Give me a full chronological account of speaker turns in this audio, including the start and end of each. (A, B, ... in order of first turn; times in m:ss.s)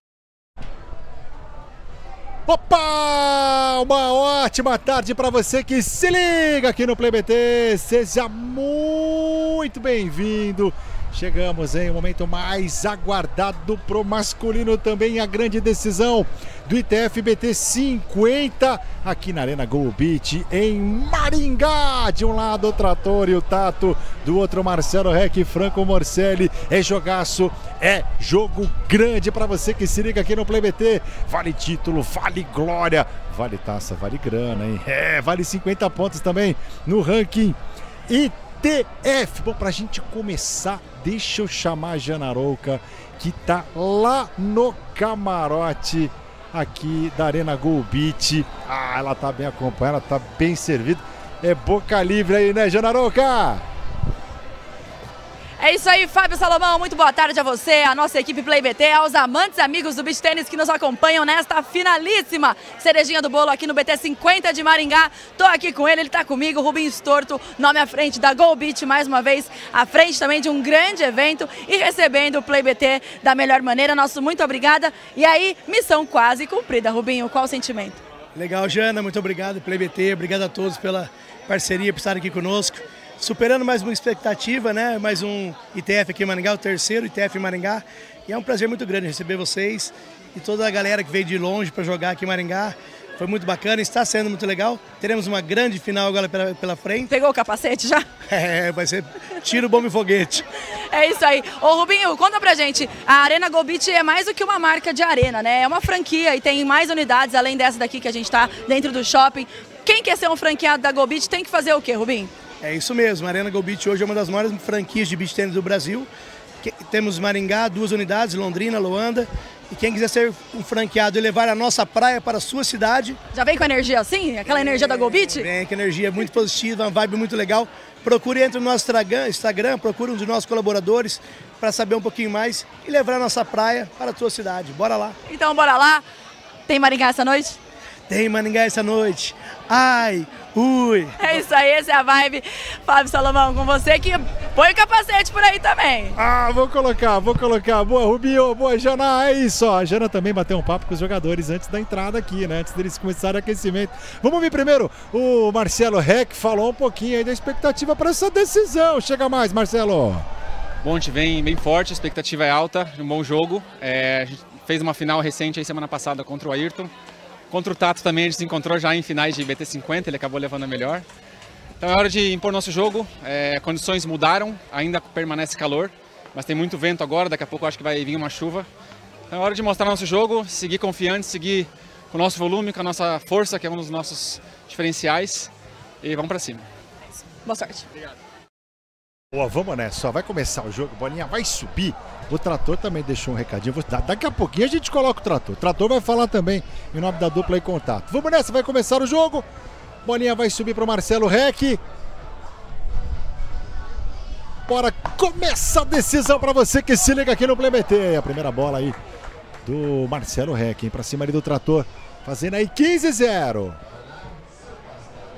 0:02.5-0:53.7 A
0:55.6-1:18.0 B
1:18.4-1:37.1 C
1:37.1-1:38.1 B
1:38.3-1:40.4 C
1:40.7-1:52.3 B
1:52.6-1:56.1 C
1:56.6-2:03.2 C
2:03.3-2:05.5 B
2:04.5-2:15.2 C
2:15.3-2:16.0 B
2:16.7-2:17.6 B
2:18.1-2:21.3 C
2:21.2-2:26.2 B
2:26.2-2:40.3 A
2:40.8-2:46.9 D
2:47.5-2:51.1 D
2:51.8-2:58.7 D
2:59.3-3:06.7 D
3:07.3-3:07.9 B
3:09.3-3:19.5 A
3:20.0-3:21.8 A
3:24.7-3:29.0 A
3:29.6-3:33.8 A